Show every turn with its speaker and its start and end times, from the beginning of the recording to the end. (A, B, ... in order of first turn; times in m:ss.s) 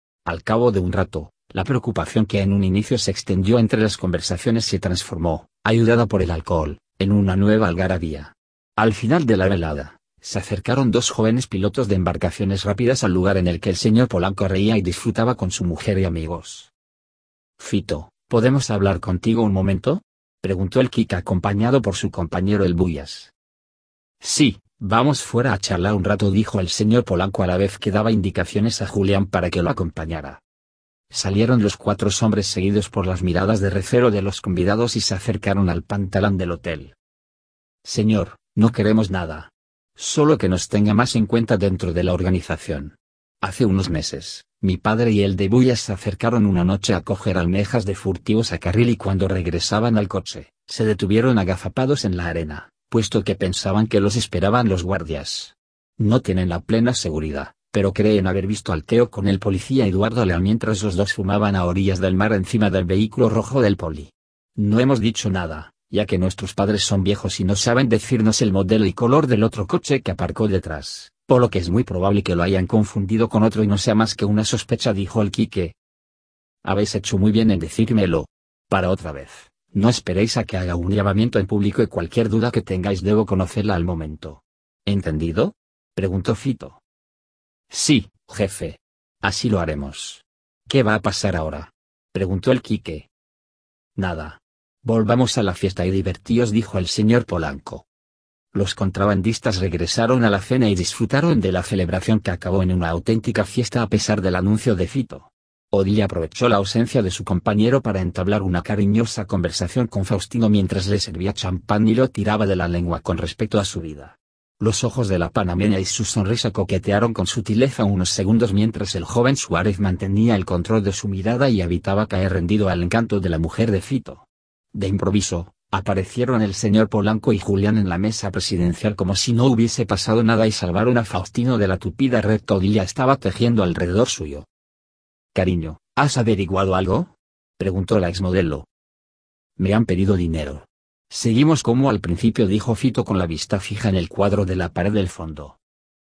0:00.2-0:16.7 A
0:17.6-0:23.3 A
0:24.2-0:30.4 A
0:31.1-0:37.0 A
0:37.8-1:15.8 A
1:16.6-1:26.8 A
1:27.7-1:33.1 A
1:34.0-1:37.9 A
1:38.5-2:14.5 A
2:15.3-2:18.7 A
2:19.6-2:25.6 A